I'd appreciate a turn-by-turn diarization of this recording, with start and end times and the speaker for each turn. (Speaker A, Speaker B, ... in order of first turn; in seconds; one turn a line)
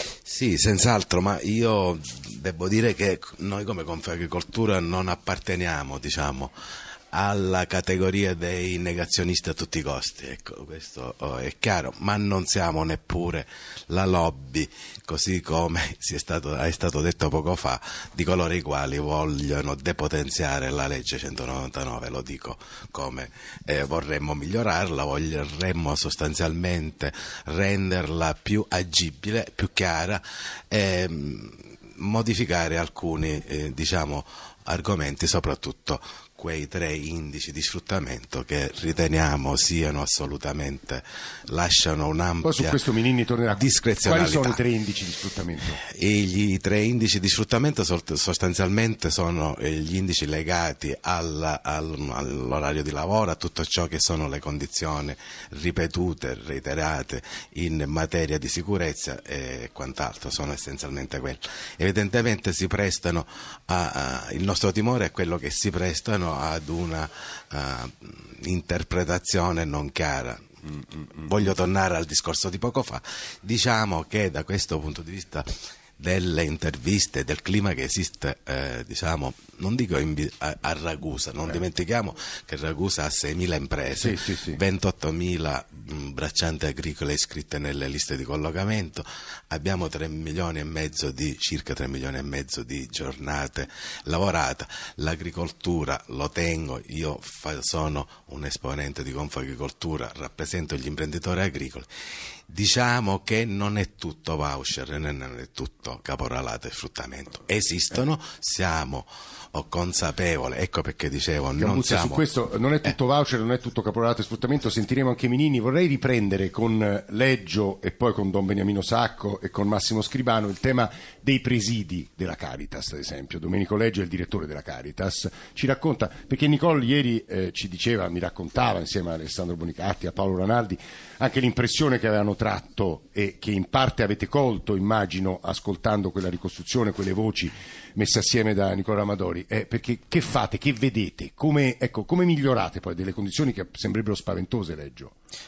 Speaker A: 0.2-6.5
Speaker A: 7.1-42.9
Speaker B: 42.4-45.8
Speaker A: 43.5-44.6
Speaker A: 45.7-75.5
Speaker A: 76.0-101.9
Speaker B: 84.0-84.6
Speaker A: 102.5-112.2
Speaker B: 111.6-145.1